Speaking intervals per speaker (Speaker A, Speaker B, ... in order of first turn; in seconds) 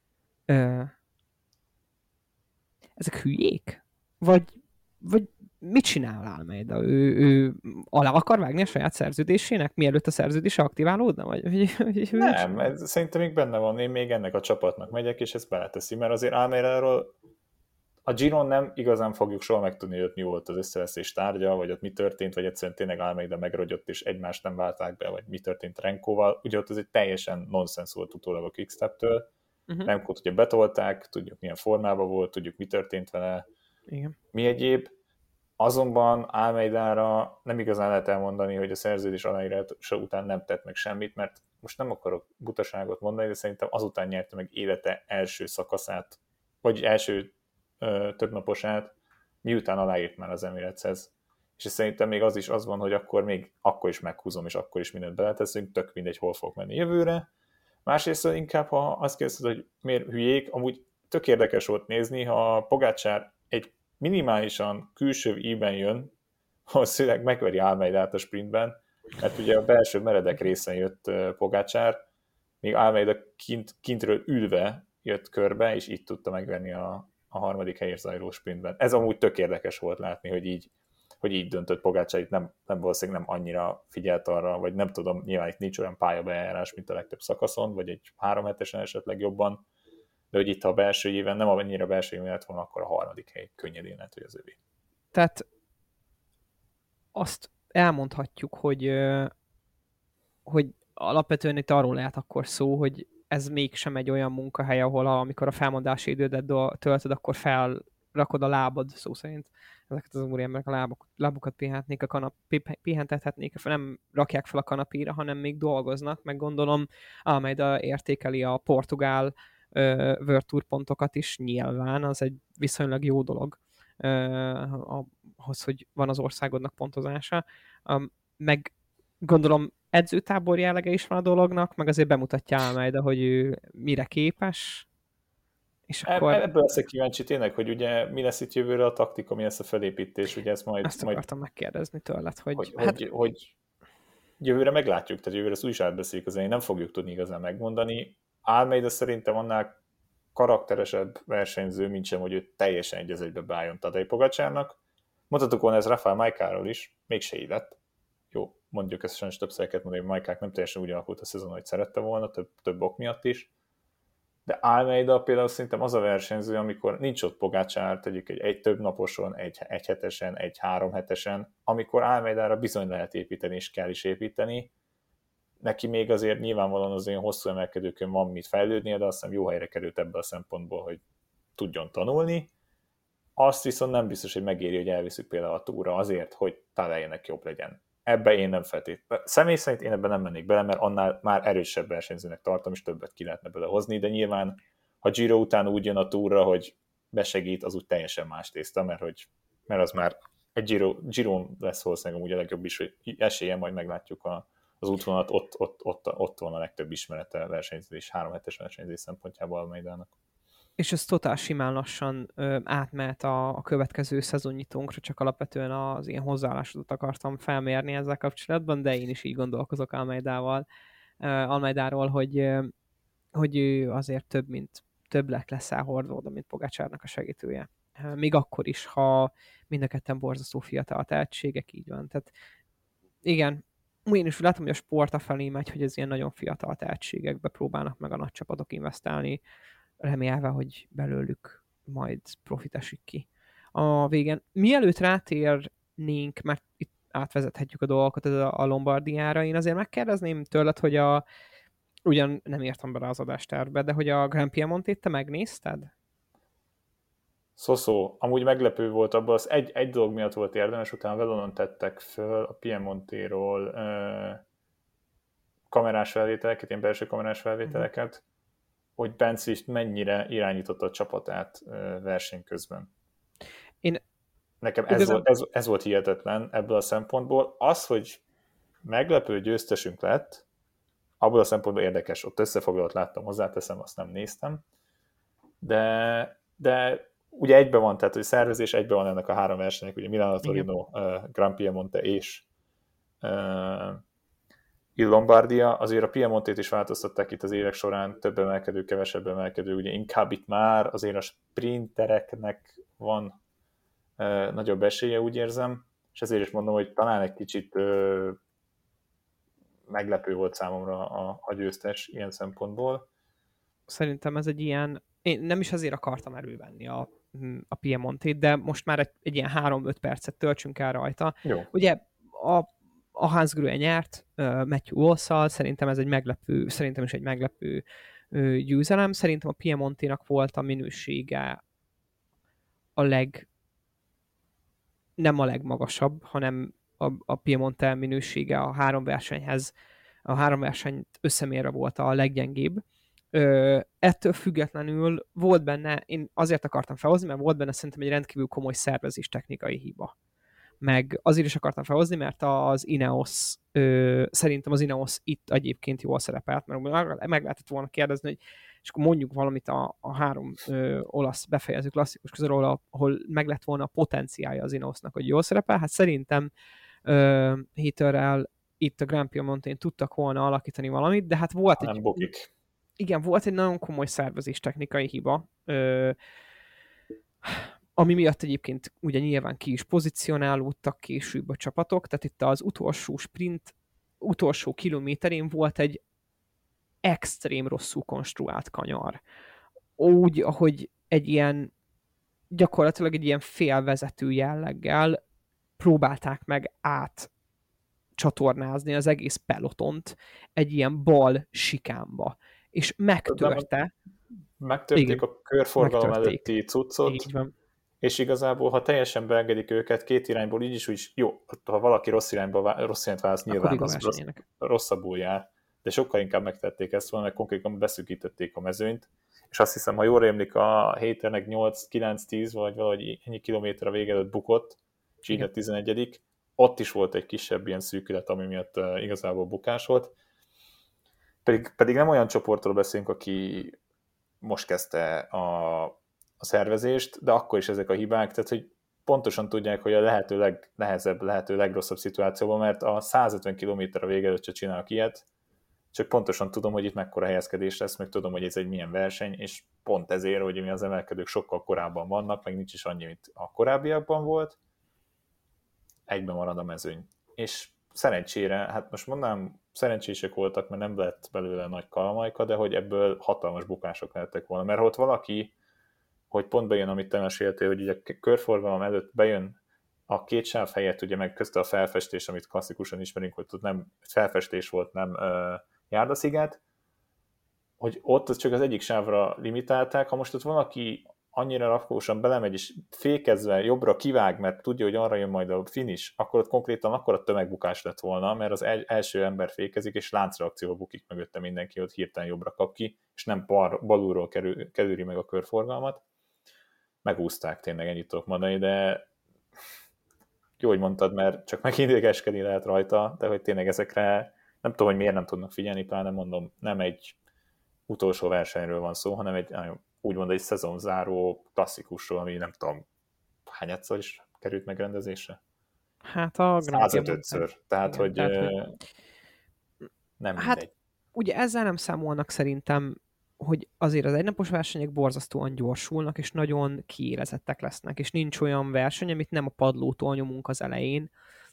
Speaker A: 0.5-0.9, 3.0-12.7, 33.9-34.1, 95.1-95.4, 97.1-99.3, 100.5-134.9, 135.9-136.4, 140.8-143.0, 210.8-220.6, 221.2-222.7, 223.3-232.3, 233.2-239.4, 240.0-251.2, 252.1-255.9, 274.9-275.2, 313.9-331.6, 332.9-333.5, 335.2-339.7, 340.2-350.1, 350.8-366.5, 367.0-372.2, 373.0-376.1, 377.4-386.0, 387.0-389.2, 390.0-391.7, 392.5-395.2, 395.8-397.3, 398.2-403.9, 404.9-405.2, 405.8-406.4, 407.0-407.5, 413.5-414.4, 516.0-518.6, 521.1-531.1
Speaker B: 12.2-17.1, 18.1-29.3, 29.8-33.4, 34.3-34.9, 35.6-48.9, 49.4-57.3, 57.9-66.1, 66.7-72.0, 72.6-80.7, 81.2-89.6, 90.3-94.6, 136.1-141.2, 142.6-143.5, 144.4-149.7, 150.3-154.8, 155.3-157.8, 158.3-163.5, 164.4-174.7, 175.6-181.0, 181.6-182.5, 183.4-210.1, 257.6-264.4, 265.7-268.2, 269.0-272.9, 274.6-278.2, 278.8-280.4, 281.2-284.6, 285.6-292.4, 293.2-294.0, 294.9-303.4, 304.2-308.4, 309.9-313.0, 321.4-321.7, 371.8-372.5, 403.2-403.7, 404.6-407.3, 408.0-430.1, 431.4-433.8, 434.4-445.2, 445.9-454.6, 456.1-465.5, 466.3-469.6, 470.1-476.6, 477.8-496.0, 497.0-499.1, 500.6-507.1, 507.9-512.8, 513.5-515.4, 516.6-518.8, 520.2-520.7